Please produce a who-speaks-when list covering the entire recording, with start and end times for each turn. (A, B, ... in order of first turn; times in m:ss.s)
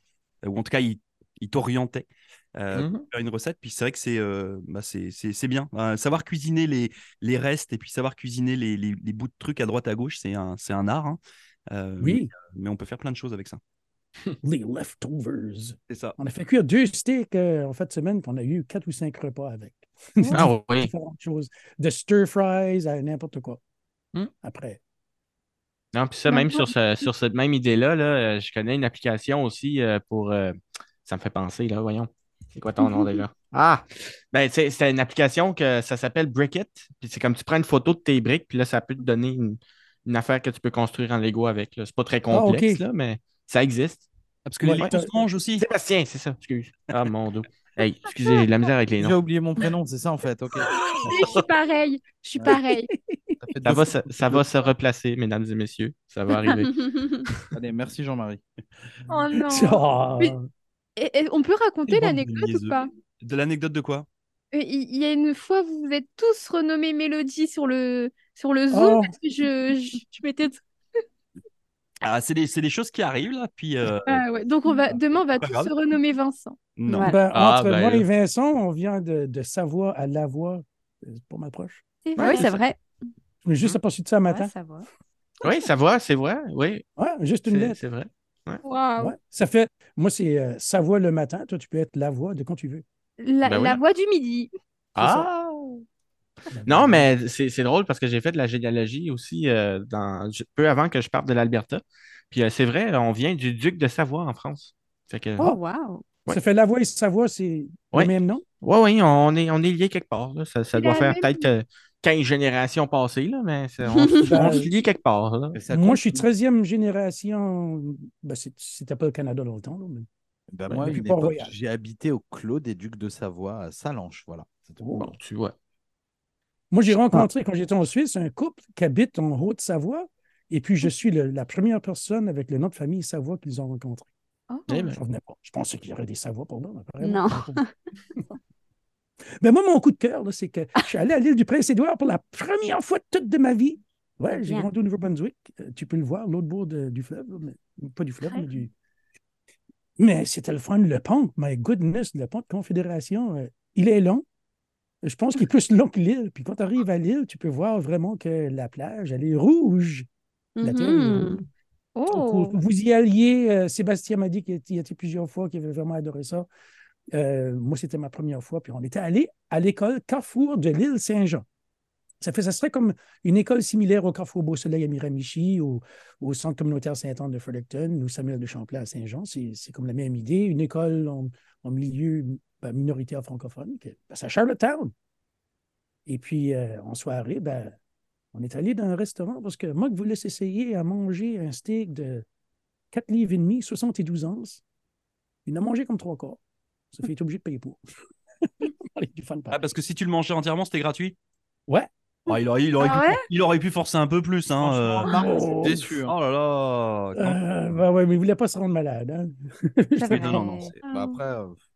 0:00.4-0:11.2 A
0:02.7-0:03.0 B
0:11.7-0:13.6 A
0:12.0-0:12.3 C
0:14.4-0:23.6 C
0:15.9-0:16.2 A
0:20.3-0:20.9 B
0:24.2-0:24.8 C
0:25.9-0:44.1 B
0:26.3-0:27.0 D
0:32.8-0:33.1 D
0:42.3-0:42.8 C
0:44.4-0:45.7 A
0:44.6-0:45.2 C
0:45.6-0:49.2 B
0:49.0-0:50.7 E
0:50.7-0:52.9 D
0:52.4-0:53.5 C
0:53.4-0:54.5 E
0:53.6-0:56.9 B
0:57.5-0:58.4 E
0:59.1-1:00.3 D
0:59.4-1:00.5 C
1:01.0-1:02.9 D
1:01.9-1:04.0 A
1:04.5-1:10.6 D
1:08.7-1:09.1 C
1:12.0-1:14.2 A
1:14.0-1:16.6 D
1:15.2-1:15.7 A
1:16.8-1:17.2 A
1:16.9-1:17.2 F
1:17.0-1:22.4 C
1:17.3-1:18.0 B
1:22.0-1:22.5 D
1:22.2-1:22.8 F
1:22.2-1:22.5 B
1:23.4-1:24.5 C
1:24.3-1:24.8 F
1:25.4-1:26.8 B
1:27.0-1:27.8 C
1:27.5-1:28.6 B
1:28.6-1:29.1 D
1:29.0-1:32.8 C
1:33.2-1:34.5 D
1:33.4-1:33.8 B
1:35.0-1:35.8 B
1:35.0-1:35.3 C
1:36.5-1:37.1 C
1:36.6-1:45.5 B
1:45.4-1:46.0 F
1:46.3-1:48.4 C
1:47.9-1:55.6 B
1:50.7-1:51.5 D
1:53.9-1:54.3 F
1:54.2-1:54.7 C
1:54.4-1:54.6 E
1:55.5-1:56.2 E
1:55.7-2:00.0 C
2:00.5-2:04.9 E
2:00.7-2:01.5 C
2:04.8-2:05.1 C
2:05.0-2:05.6 B
2:06.7-2:14.1 C
2:14.7-2:15.0 B
2:14.9-2:17.6 C
2:17.0-2:17.7 F
2:19.4-2:28.7 C
2:24.4-2:24.7 F
2:30.0-2:34.2 C
2:35.0-2:40.1 C
2:40.6-2:41.4 F
2:40.6-2:41.4 C
2:42.0-2:42.5 D
2:42.1-2:46.5 C
2:47.1-2:51.4 C
2:52.2-3:04.9 C
3:06.1-3:07.7 C
3:08.3-3:12.2 C
3:12.9-3:14.6 C
3:15.4-3:16.4 C
3:16.9-3:17.8 C
3:18.4-3:19.6 C
3:19.5-3:21.2 A
3:22.3-3:25.1 A
3:22.8-3:23.2 F
3:24.6-3:26.1 E
3:25.1-3:26.0 C
3:26.0-3:27.4 A
3:27.2-3:30.4 C
3:30.0-3:30.7 F
3:30.1-3:30.8 A
3:30.8-3:31.2 D
3:30.9-3:31.6 E